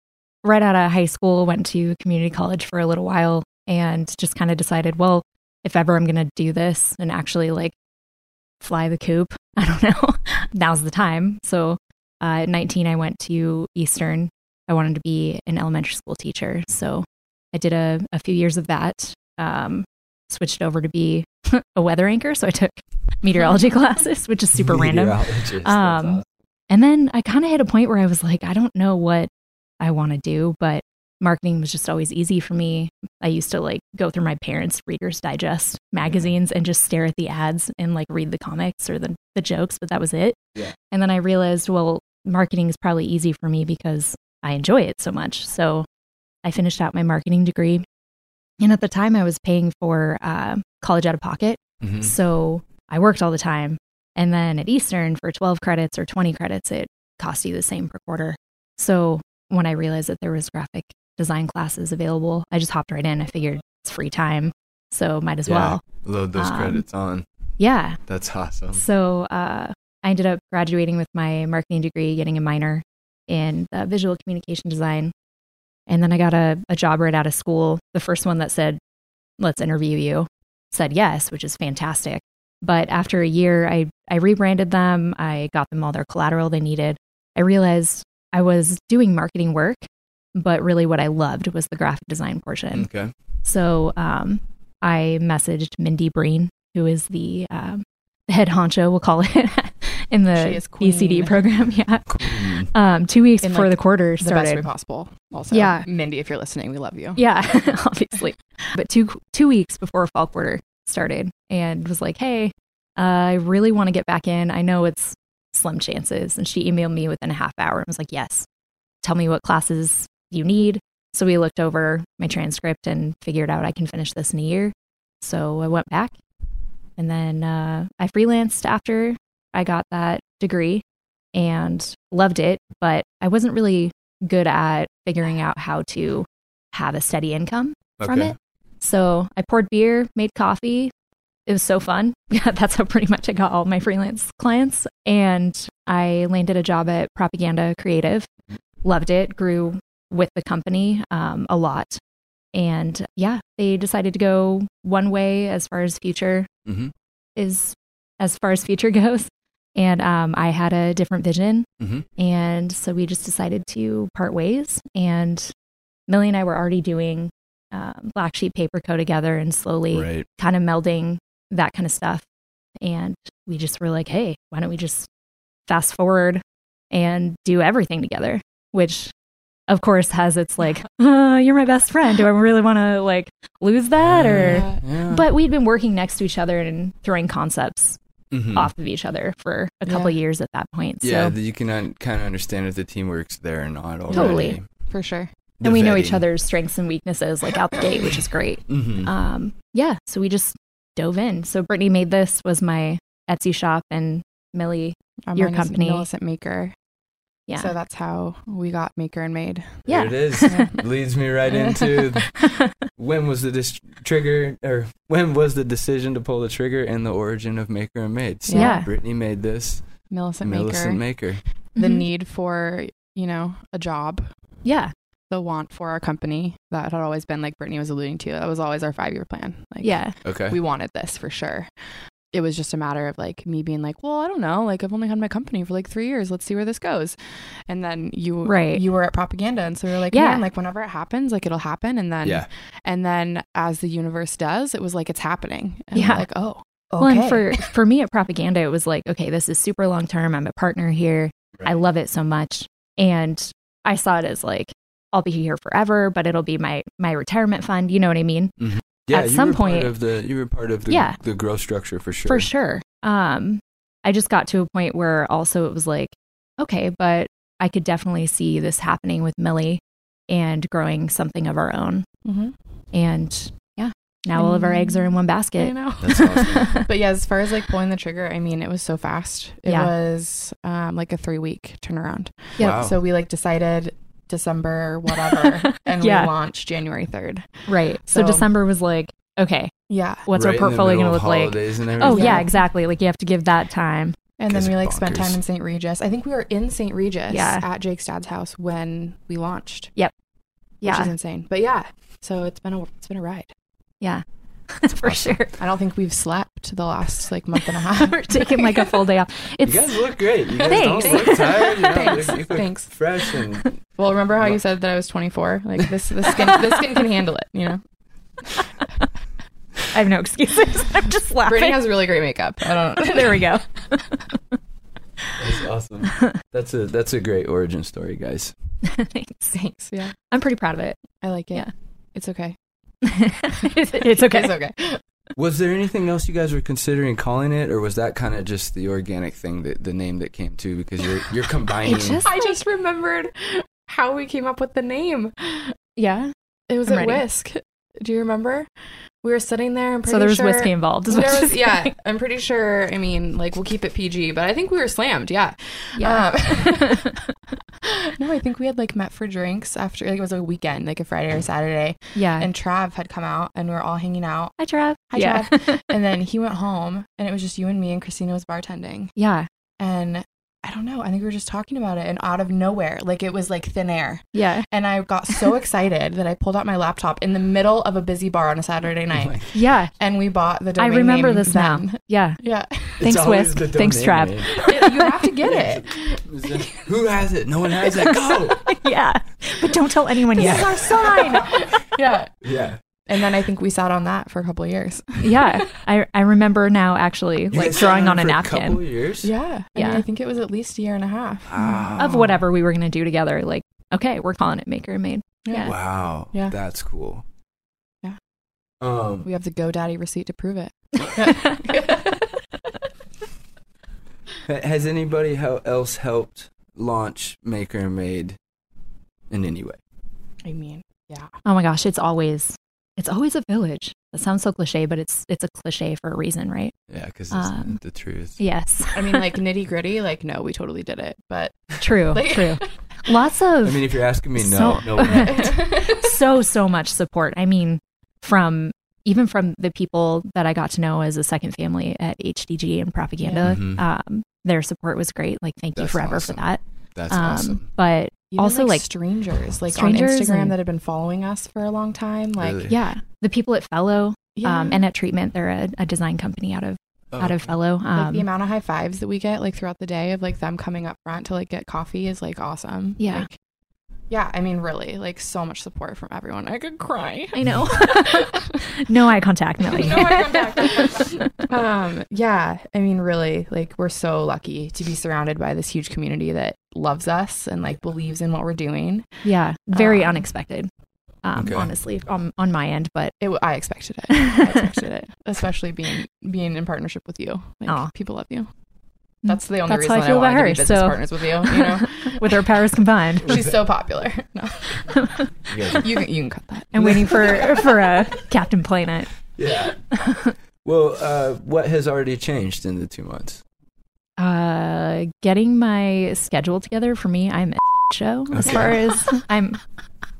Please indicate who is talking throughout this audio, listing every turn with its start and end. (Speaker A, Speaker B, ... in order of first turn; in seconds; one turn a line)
Speaker A: 0.4-7.7
Speaker A: 8.6-40.4
Speaker B: 24.5-26.2
Speaker B: 36.0-36.3
Speaker A: 40.9-45.9
Speaker A: 46.4-47.8
Speaker A: 48.6-66.8
Speaker B: 51.8-52.1
Speaker B: 65.5-67.2
Speaker A: 67.6-68.0
Speaker B: 68.0-68.8
Speaker A: 68.7-75.1
Speaker A: 75.9-78.8
Speaker A: 79.4-92.9
Speaker B: 92.7-93.1
Speaker A: 93.4-104.7
Speaker C: 100.3-101.4
Speaker B: 102.1-102.7
Speaker C: 103.4-107.2
Speaker A: 105.5-105.9
Speaker A: 107.2-118.5
Speaker A: 119.0-126.2
Speaker A: 127.0-130.8
Speaker A: 131.3-140.9
Speaker B: 138.0-138.3
Speaker A: 141.5-148.3
Speaker A: 148.8-152.0
Speaker A: 152.5-156.5
Speaker B: 156.7-156.9
Speaker A: 157.3-165.5
Speaker B: 161.8-162.1
Speaker A: 166.1-172.2
Speaker B: 169.9-170.2
Speaker A: 172.8-175.1
Speaker A: 175.7-179.1
Speaker A: 179.7-188.0
Speaker B: 183.9-185.2
Speaker C: 184.3-184.8
Speaker B: 188.3-188.7
Speaker A: 188.5-191.3
Speaker C: 189.8-190.2
Speaker B: 191.0-194.7
Speaker C: 194.1-195.3
Speaker A: 194.1-194.6
Speaker B: 195.6-196.2
Speaker A: 195.6-206.1
Speaker B: 198.7-199.1
Speaker C: 205.3-206.7
Speaker C: 207.6-210.8
Speaker B: 209.8-221.4
Speaker A: 209.9-210.7
Speaker C: 211.5-212.2
Speaker A: 212.4-212.7
Speaker C: 218.4-218.9
Speaker A: 218.5-218.9
Speaker C: 220.1-224.6
Speaker A: 221.8-222.0
Speaker A: 224.6-224.9
Speaker C: 225.3-247.7
Speaker A: 229.8-230.2
Speaker B: 230.2-230.6
Speaker A: 238.4-238.8
Speaker A: 240.1-240.4
Speaker B: 242.2-242.5
Speaker A: 245.9-246.3
Speaker A: 247.0-259.9
Speaker B: 258.6-262.5
Speaker A: 260.9-261.2
Speaker A: 262.2-272.1
Speaker C: 272.2-272.5
Speaker A: 272.9-276.9
Speaker C: 274.3-288.5
Speaker B: 276.0-276.7
Speaker A: 279.7-279.9
Speaker B: 282.6-282.9
Speaker A: 285.3-286.3
Speaker A: 287.7-289.7
Speaker C: 289.9-290.3
Speaker A: 290.2-294.1
Speaker B: 290.3-292.5
Speaker C: 292.0-292.6
Speaker C: 294.4-299.9
Speaker B: 294.5-295.4
Speaker A: 297.3-297.6
Speaker A: 300.8-301.1
Speaker C: 300.8-303.5
Speaker A: 304.0-305.5
Speaker B: 305.0-305.4
Speaker C: 305.6-309.0
Speaker A: 307.6-312.2
Speaker B: 309.6-313.8
Speaker C: 311.0-312.9
Speaker C: 314.0-317.8
Speaker A: 319.9-322.1
Speaker C: 321.4-323.6
Speaker A: 322.6-324.2
Speaker B: 325.3-328.6
Speaker A: 328.8-329.6
Speaker C: 329.5-330.1
Speaker A: 330.2-331.7
Speaker C: 331.2-332.6
Speaker A: 333.1-334.6
Speaker C: 333.9-335.0
Speaker B: 335.4-342.3
Speaker A: 341.8-342.6
Speaker C: 342.2-345.8
Speaker A: 345.9-346.3
Speaker C: 346.7-364.6
Speaker A: 346.9-347.2
Speaker A: 350.1-351.9
Speaker A: 355.9-357.1
Speaker A: 362.1-362.5
Speaker A: 364.6-365.9
Speaker C: 365.1-369.1
Speaker A: 369.2-369.5
Speaker C: 369.8-383.0
Speaker A: 374.3-374.7
Speaker B: 379.1-379.5
Speaker A: 379.5-379.9
Speaker A: 380.8-385.2
Speaker B: 383.0-384.7
Speaker C: 384.6-386.8
Speaker B: 385.4-388.7
Speaker A: 388.2-391.6
Speaker C: 390.3-392.4
Speaker B: 390.4-391.7
Speaker B: 392.4-392.8
Speaker C: 393.1-395.6
Speaker A: 395.2-398.8
Speaker B: 397.5-399.3
Speaker C: 399.2-402.4
Speaker A: 399.7-400.0
Speaker B: 401.5-402.3
Speaker A: 402.0-405.7
Speaker C: 405.4-405.7
Speaker B: 405.6-407.2
Speaker B: 408.8-409.3
Speaker C: 409.2-412.4
Speaker B: 414.4-418.4
Speaker B: 419.3-419.8
Speaker C: 420.4-421.4
Speaker A: 421.4-426.8
Speaker B: 426.9-428.4
Speaker A: 427.3-427.8
Speaker A: 428.4-429.3
Speaker C: 428.9-433.0
Speaker A: 431.8-448.9
Speaker B: 433.6-435.5
Speaker C: 435.1-436.1
Speaker C: 443.2-443.6
Speaker B: 443.4-443.8
Speaker B: 445.8-447.6
Speaker C: 448.3-452.7
Speaker A: 449.7-450.5
Speaker B: 452.4-452.8
Speaker A: 452.7-458.2
Speaker C: 454.4-454.8
Speaker B: 457.1-457.5
Speaker C: 457.9-463.3
Speaker A: 463.0-463.3
Speaker C: 464.1-468.6
Speaker A: 467.3-471.4
Speaker C: 469.6-480.3
Speaker A: 479.2-480.7
Speaker A: 481.2-483.2
Speaker B: 481.4-481.7
Speaker C: 483.2-488.5
Speaker A: 484.1-484.6
Speaker A: 487.7-487.9
Speaker C: 489.2-492.5
Speaker A: 489.2-493.4
Speaker C: 493.2-495.1
Speaker B: 493.2-493.6
Speaker A: 494.9-495.2
Speaker B: 495.5-495.9
Speaker C: 495.8-497.7
Speaker A: 496.7-499.3
Speaker B: 496.8-497.7
Speaker B: 499.3-503.4
Speaker A: 499.9-500.3
Speaker A: 504.2-509.7
Speaker B: 508.3-508.8
Speaker C: 508.4-509.2